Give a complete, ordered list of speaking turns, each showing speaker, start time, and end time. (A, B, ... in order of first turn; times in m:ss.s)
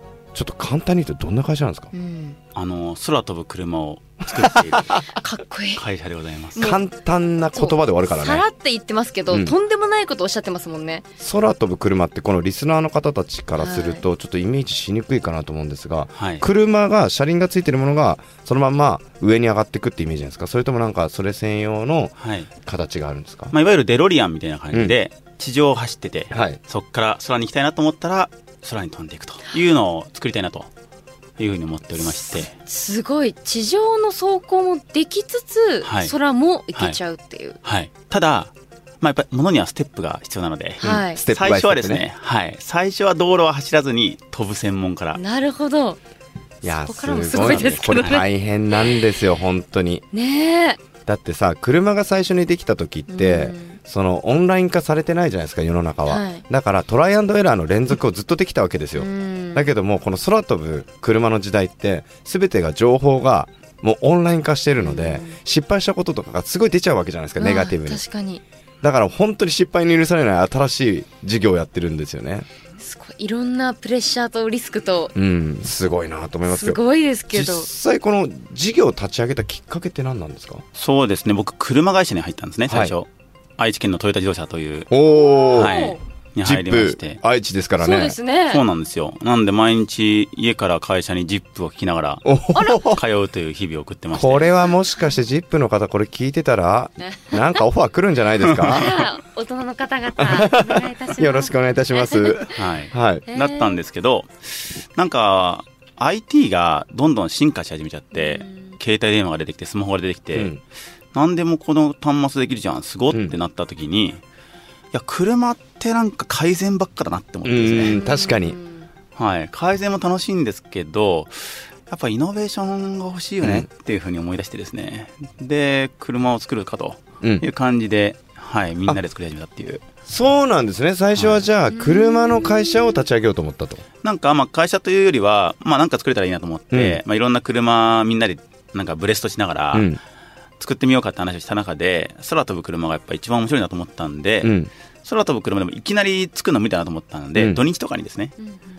0:00.3-0:01.9 A
0:01.9-0:02.4 B
0:02.5-0:05.0 C
0:04.7-0:05.0 A
0:05.1-0:05.8 B
0:05.8-0:06.6 C
0:06.6-0:06.8 B
0:06.6-0:08.4 A
0:07.5-0:11.0 B
0:11.2-0:23.5 A
0:13.6-0:14.0 B
0:16.2-0:16.4 C
0:22.2-0:22.5 C
0:23.5-0:30.7 C
0:26.3-0:26.6 A
0:31.4-0:32.5 C
0:32.2-0:37.6 B
0:35.8-0:36.1 C
0:37.6-0:45.2 C
0:40.8-0:41.2 B
0:40.8-0:42.0 A
0:45.1-0:46.0 B
0:46.6-0:50.0 A
0:46.6-0:48.3 B
0:47.3-0:48.2 C
0:50.1-0:50.8 B
0:51.0-1:08.0 A
0:53.1-0:53.8 B
0:56.1-0:56.4 B
0:59.0-0:59.7 B
1:04.8-1:05.4 B
1:07.4-1:08.4 B
1:08.8-1:12.5 A
1:12.8-1:15.1 B
1:15.1-1:16.8 A
1:16.4-1:17.7 B
1:17.3-1:20.6 A
1:20.7-1:24.9 C
1:22.7-1:22.9 A
1:24.9-1:25.7 A
1:25.0-1:26.0 B
1:25.5-1:27.2 C
1:26.4-1:28.2 A
1:27.8-1:28.6 B
1:28.5-1:34.6 C
1:32.2-1:33.0 A
1:32.6-1:32.8 B
1:34.1-1:38.9 A
1:37.0-1:37.4 B
1:38.6-1:42.5 B
1:40.2-1:43.3 A
1:42.5-1:50.5 C
1:43.3-1:43.8 B
1:48.2-1:48.6 B
1:50.3-1:50.6 A
1:51.1-1:54.2 C
1:54.9-1:58.0 C
1:57.4-1:58.6 A
1:57.9-1:58.9 B
1:59.2-2:09.8 C
2:03.4-2:03.7 A
2:10.1-2:13.8 A
2:11.2-2:11.4 C
2:11.7-2:12.5 B
2:14.0-2:19.9 C
2:16.7-2:17.0 A
2:19.7-2:20.0 A
2:20.6-2:28.3 C
2:24.4-2:24.7 A
2:27.4-2:27.6 A